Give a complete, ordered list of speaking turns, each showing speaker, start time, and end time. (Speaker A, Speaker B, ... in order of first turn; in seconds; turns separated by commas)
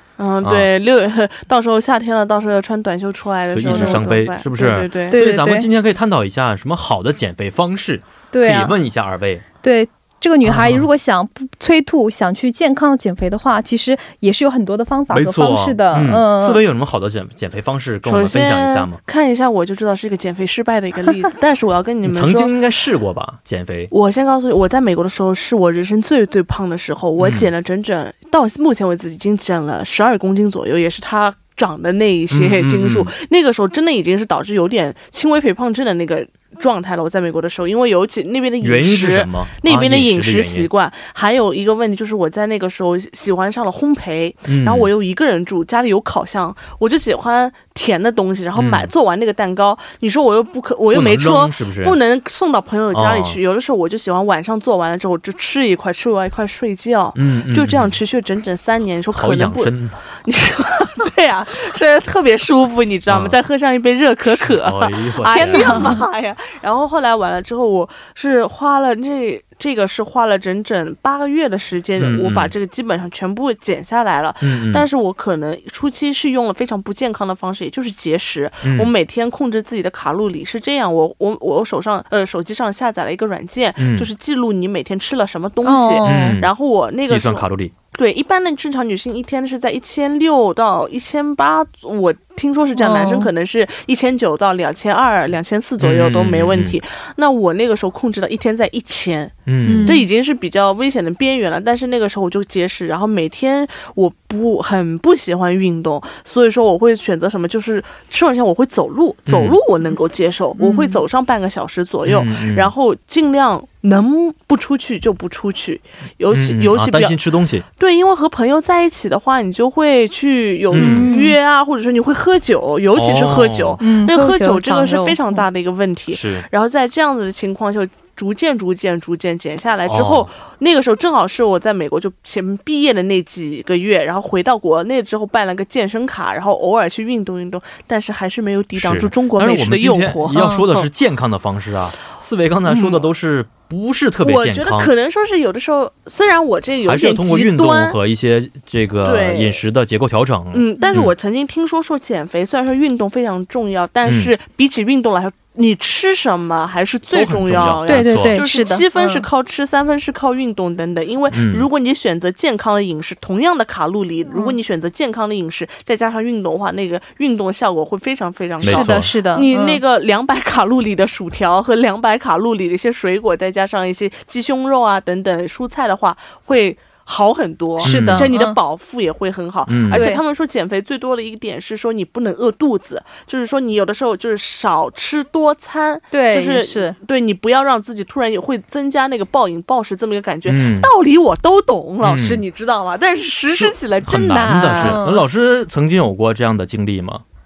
Speaker A: 0.2-5.2, Speaker B: 0.4-0.7, Speaker B: 3.5-9.4, Speaker C: 3.7-4.0, Speaker C: 5.1-5.7, Speaker C: 8.3-8.7, Speaker C: 9.6-16.6, Speaker B: 10.4-10.8, Speaker B: 15.1-19.0, Speaker A: 18.0-22.5, Speaker B: 22.0-23.9, Speaker A: 23.9-140.9, Speaker B: 27.2-27.5, Speaker B: 32.3-33.1, Speaker B: 38.6-40.7, Speaker B: 44.5-44.9, Speaker B: 48.5-48.9, Speaker B: 50.9-52.0, Speaker B: 52.9-53.4, Speaker B: 57.1-58.0, Speaker B: 59.1-60.0, Speaker B: 63.1-63.4, Speaker B: 64.2-66.0, Speaker C: 65.3-66.0, Speaker B: 72.0-72.5, Speaker B: 74.4-74.8, Speaker B: 78.6-78.9, Speaker B: 83.8-84.1, Speaker C: 85.6-86.4, Speaker B: 86.0-86.5, Speaker B: 87.0-87.7, Speaker C: 92.8-93.3, Speaker B: 95.8-96.8, Speaker B: 99.5-99.9, Speaker C: 99.6-100.0, Speaker B: 109.3-109.6, Speaker C: 110.6-111.0, Speaker B: 112.0-112.7, Speaker B: 116.3-117.6, Speaker B: 120.7-121.1, Speaker C: 120.7-121.4, Speaker B: 122.9-123.8, Speaker C: 123.8-125.4, Speaker B: 126.1-126.5, Speaker B: 129.8-130.3, Speaker B: 138.8-144.9, Speaker A: 142.7-143.0, Speaker A: 144.2-148.0, Speaker B: 146.8-151.1, Speaker A: 149.0-149.6, Speaker A: 150.5-195.0, Speaker B: 154.1-154.3, Speaker B: 157.1-158.4, Speaker C: 157.9-159.2, Speaker B: 161.3-161.7, Speaker C: 164.3-164.6, Speaker B: 168.6-169.1, Speaker C: 168.7-169.8, Speaker B: 177.8-178.3, Speaker C: 177.8-178.6, Speaker B: 179.7-180.1, Speaker C: 179.9-180.2, Speaker C: 186.1-187.0, Speaker B: 190.5-190.9, Speaker B: 192.0-192.4, Speaker B: 193.5-197.2, Speaker C: 194.8-195.2